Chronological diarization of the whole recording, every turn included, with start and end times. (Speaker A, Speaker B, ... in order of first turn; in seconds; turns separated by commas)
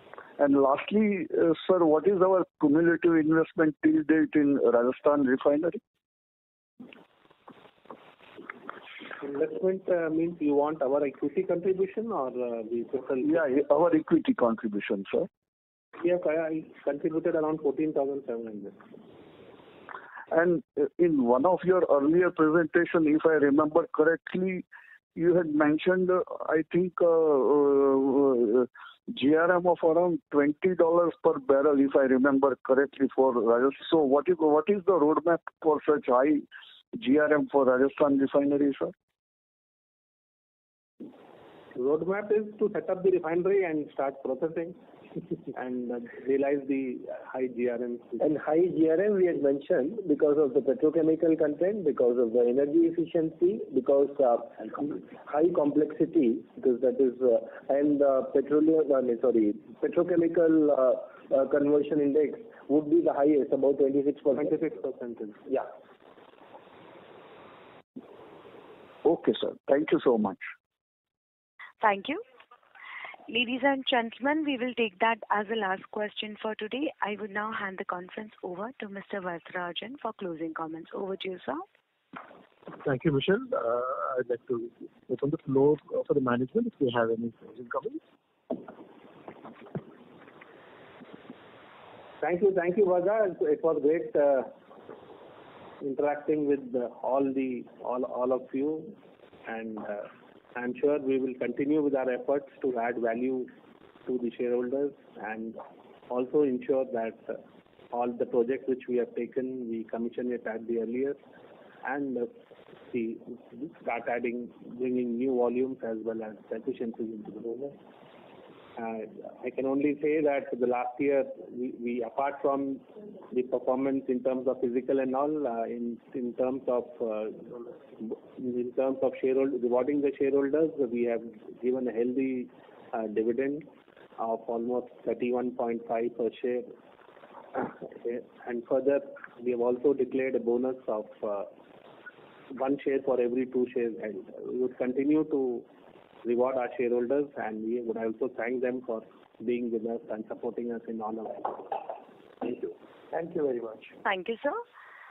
Speaker A: 0.4-5.8, Speaker B: 9.2-13.4, Speaker A: 13.2-15.3, Speaker B: 16.0-18.8, Speaker A: 20.3-38.9, Speaker B: 41.8-44.8, Speaker B: 45.5-48.2, Speaker C: 48.2-64.6, Speaker B: 64.3-65.4, Speaker A: 69.0-70.4, Speaker D: 71.8-72.2, Speaker D: 73.3-81.7, Speaker E: 82.8-88.0, Speaker B: 92.2-94.5, Speaker B: 95.8-98.9, Speaker B: 99.5-103.5, Speaker B: 104.1-107.4, Speaker B: 107.9-111.2, Speaker B: 111.8-112.3, Speaker B: 112.9-117.8, Speaker B: 118.8-133.7, Speaker B: 134.2-136.7, Speaker B: 137.5-141.5, Speaker B: 142.5-145.7, Speaker B: 146.2-151.8, Speaker C: 152.4-153.9, Speaker D: 154.0-154.6